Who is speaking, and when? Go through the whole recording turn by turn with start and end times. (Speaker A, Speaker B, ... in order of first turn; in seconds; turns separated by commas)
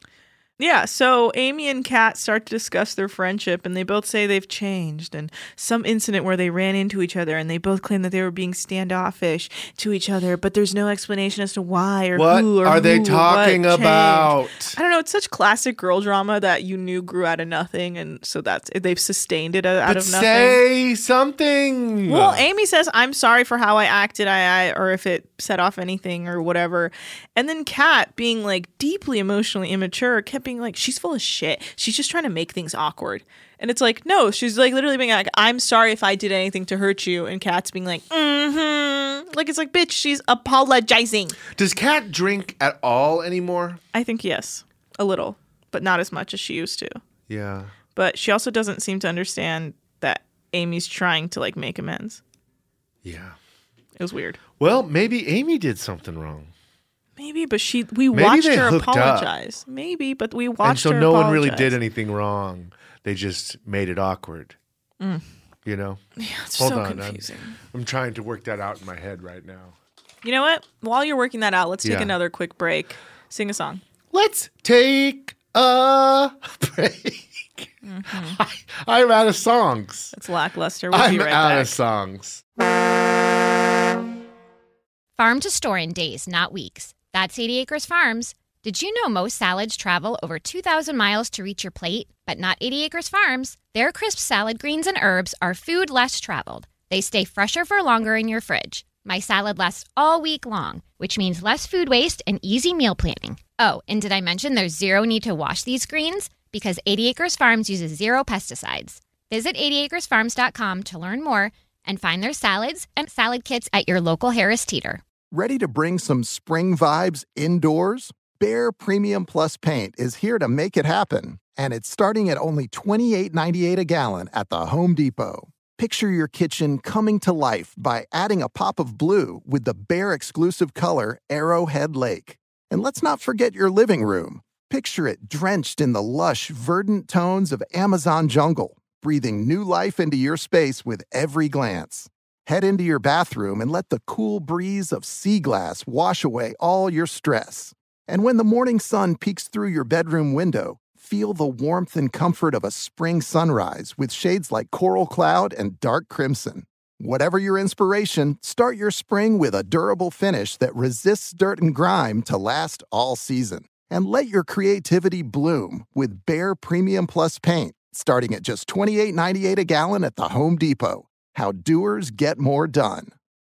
Speaker A: 0.6-20.6, Speaker B: 12.2-14.8, Speaker B: 19.9-22.4, Speaker A: 22.1-41.4, Speaker B: 41.5-43.8, Speaker A: 43.9-47.0, Speaker B: 47.3-47.7, Speaker A: 48.0-52.2, Speaker B: 53.0-53.4, Speaker A: 54.0-54.4, Speaker B: 54.6-56.5, Speaker A: 57.2-61.8, Speaker B: 58.1-59.3, Speaker B: 60.6-64.6, Speaker B: 65.7-66.0, Speaker A: 66.2-67.6, Speaker B: 66.6-69.8, Speaker A: 70.2-73.8, Speaker B: 71.8-72.2, Speaker B: 74.1-77.7, Speaker A: 77.8-78.4, Speaker B: 78.2-80.1, Speaker A: 80.1-81.8, Speaker B: 80.9-82.4, Speaker C: 85.2-115.0, Speaker D: 115.3-173.1